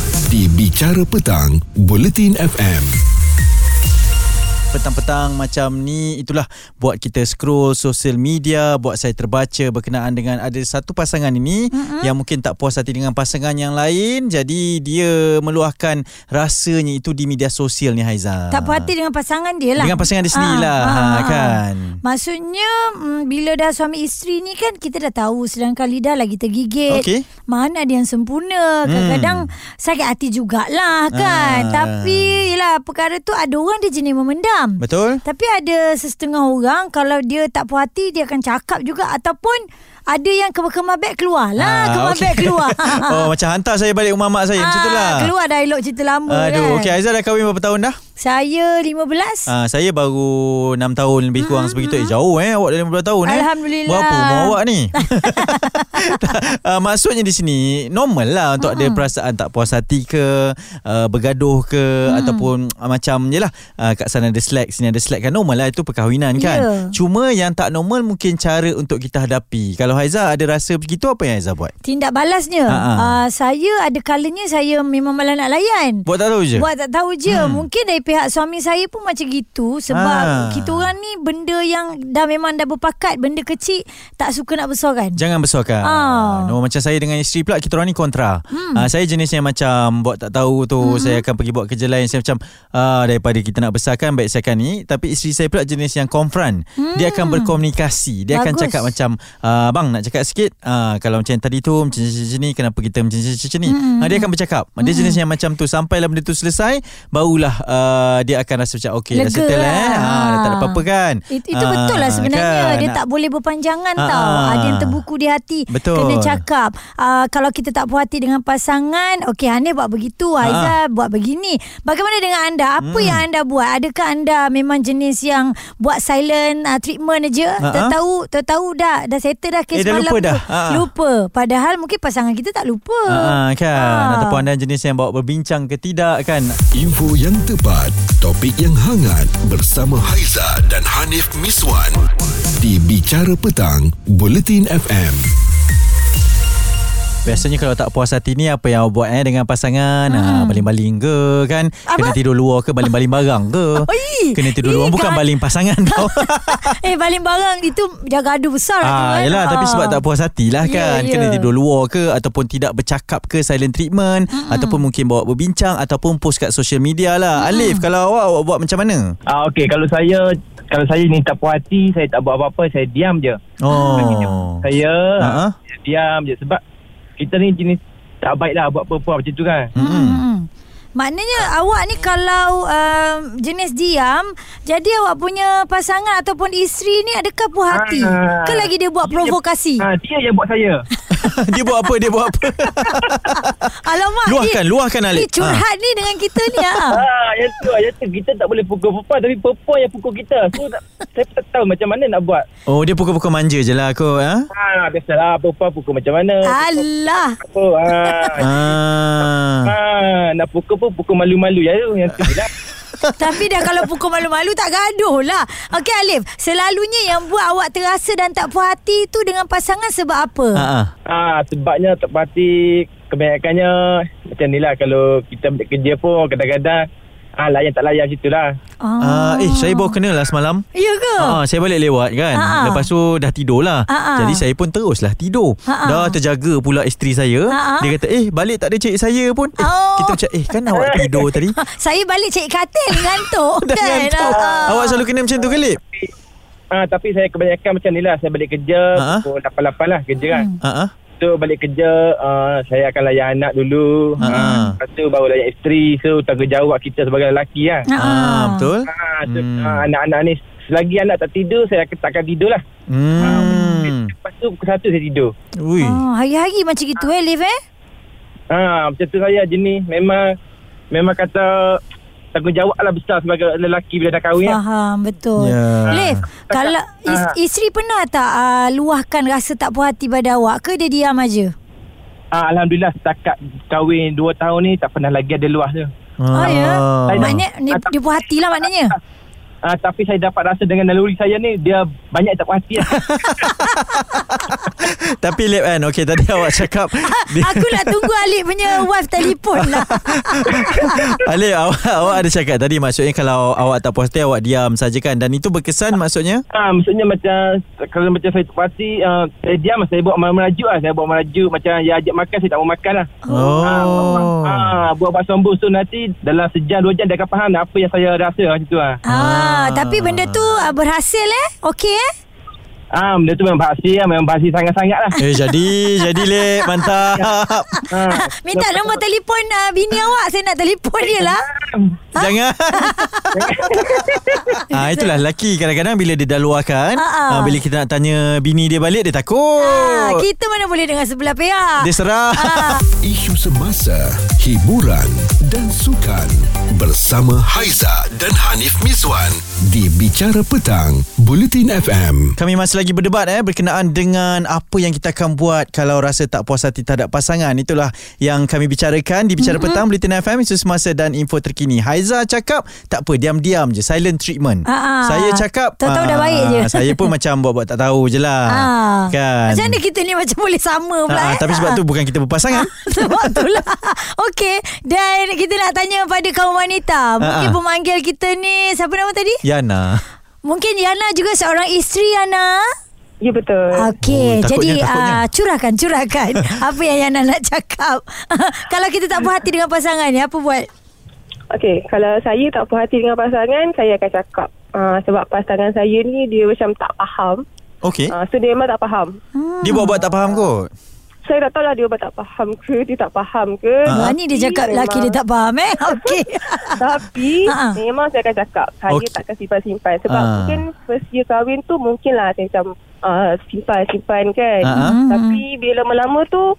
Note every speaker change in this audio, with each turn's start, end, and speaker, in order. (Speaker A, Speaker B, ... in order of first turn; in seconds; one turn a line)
Speaker A: 0.3-3.0
Speaker B: 4.7-18.9
Speaker C: 11.7-12.1
Speaker C: 18.5-43.3
Speaker B: 19.8-22.0
Speaker B: 26.9-27.2
Speaker B: 28.9-29.5
Speaker B: 31.1-32.4
Speaker B: 34.8-35.2
Speaker B: 41.6-45.3
Speaker C: 44.6-46.9
Speaker B: 46.3-48.0
Speaker C: 48.2-49.5
Speaker B: 49.5-71.7
Speaker C: 51.4-52.1
Speaker C: 53.2-56.2
Speaker C: 58.6-59.0
Speaker C: 62.0-62.5
Speaker C: 66.4-66.9
Speaker C: 71.8-85.2
Speaker B: 72.7-73.2
Speaker B: 76.0-76.7
Speaker B: 77.3-77.6
Speaker B: 79.9-80.9
Speaker B: 85.2-113.0
Speaker C: 85.8-86.5
Speaker C: 88.5-88.8
Speaker C: 90.8-91.2
Speaker C: 96.8-97.6
Speaker C: 98.3-98.9
Speaker C: 103.7-104.3
Speaker C: 104.8-105.2
Speaker C: 109.1-134.4
Speaker B: 114.0-115.0
Speaker B: 115.7-116.4
Speaker B: 120.4-120.8
Speaker B: 122.8-123.2
Speaker B: 127.6-128.0
Speaker B: 129.7-130.9
Speaker B: 133.1-136.6
Speaker A: 136.7-145.3
Speaker B: 147.2-156.8
Speaker C: 150.1-150.7
Speaker C: 151.9-152.2
Speaker C: 153.8-155.2
Speaker C: 155.8-160.0
Speaker B: 158.8-169.1
Speaker C: 160.6-161.5
Speaker C: 164.3-164.8
Speaker C: 167.3-167.8
Speaker D: 169.3-176.6
Speaker B: 173.6-174.6
Speaker C: 173.7-174.3
Speaker B: 175.2-175.5
Speaker D: 177.2-179.7
Speaker B: 179.8-180.2
Speaker C: 179.8-189.9
Speaker D: 187.7-190.8
Speaker B: 191.1-193.6
Speaker C: 191.2-191.9
Speaker C: 193.4-197.0
Speaker B: 194.2-195.6
Speaker D: 196.9-202.4
Speaker B: 202.7-204.5
Speaker D: 204.5-208.6
Speaker C: 206.4-207.4
Speaker C: 208.0-208.4
Speaker B: 208.4-209.7
Speaker D: 209.7-212.5
Speaker B: 213.0-213.8
Speaker C: 213.2-220.7
Speaker B: 220.5-220.9
Speaker D: 221.1-226.8
Speaker D: 227.4-228.6
Speaker C: 228.8-230.0
Speaker B: 229.0-230.6
Speaker C: 230.7-231.4
Speaker B: 231.2-241.5
Speaker C: 232.3-232.8
Speaker C: 233.9-234.4
Speaker C: 235.7-236.2
Speaker C: 237.5-237.9
Speaker C: 239.6-240.2
Speaker D: 240.7-241.2
Speaker C: 241.5-245.0
Speaker B: 242.9-245.8
Speaker D: 244.2-244.8
Speaker D: 245.4-246.1
Speaker D: 246.7-250.5
Speaker B: 248.9-249.2
Speaker C: 250.2-250.5
Speaker B: 250.6-250.9
Speaker D: 251.2-257.9
Speaker C: 254.2-254.5
Speaker B: 254.2-254.8
Speaker C: 257.9-258.7
Speaker B: 258.0-259.9
Speaker D: 258.9-262.6
Speaker B: 262.9-264.1
Speaker D: 263.2-265.3
Speaker C: 263.3-263.6
Speaker B: 265.6-266.0
Speaker C: 265.8-267.6
Speaker D: 268.5-270.3
Speaker D: 270.9-271.8
Speaker D: 272.3-274.6
Speaker C: 274.4-281.5
Speaker B: 275.4-276.2
Speaker D: 276.5-277.3
Speaker D: 282.3-285.9
Speaker B: 286.2-287.4
Speaker C: 286.3-288.9
Speaker D: 287.1-288.0
Speaker D: 288.5-289.0
Speaker D: 289.6-293.0
Speaker B: 292.8-298.1
Speaker C: 297.0-301.2
Speaker B: 299.6-306.4
Speaker D: 306.5-319.0
Speaker C: 313.2-314.2
Speaker B: 313.3-314.8
Speaker C: 319.1-322.1
Speaker B: 319.1-320.7
Speaker D: 322.9-325.2
Speaker B: 325.2-327.7
Speaker C: 325.2-327.1
Speaker C: 327.7-331.4
Speaker D: 327.9-329.0
Speaker D: 331.0-332.0
Speaker B: 332.1-333.8
Speaker C: 332.2-333.3
Speaker D: 333.3-334.6
Speaker B: 334.7-340.3
Speaker C: 334.9-335.2
Speaker C: 337.0-337.6
Speaker C: 339.6-342.8
Speaker B: 341.8-342.8
Speaker A: 343.0-352.4
Speaker B: 352.4-369.8
Speaker C: 359.4-359.8
Speaker C: 364.6-367.1
Speaker C: 368.5-371.8
Speaker B: 371.1-373.5
Speaker C: 372.5-379.4
Speaker B: 377.2-377.6
Speaker B: 379.4-380.0
Speaker C: 380.4-382.7
Speaker E: 383.2-383.9
Speaker C: 383.8-390.7
Speaker B: 384.0-385.2
Speaker E: 391.5-397.4
Speaker B: 397.8-398.1
Speaker E: 398.1-399.1
Speaker C: 399.3-400.0
Speaker B: 399.6-400.7
Speaker E: 400.0-400.5
Speaker E: 401.2-405.1
Speaker B: 403.9-404.1
Speaker C: 403.9-406.8
Speaker E: 405.8-416.4
Speaker C: 407.4-407.8
Speaker B: 408.9-409.2
Speaker B: 410.1-410.6
Speaker B: 414.6-414.9
Speaker C: 414.7-415.4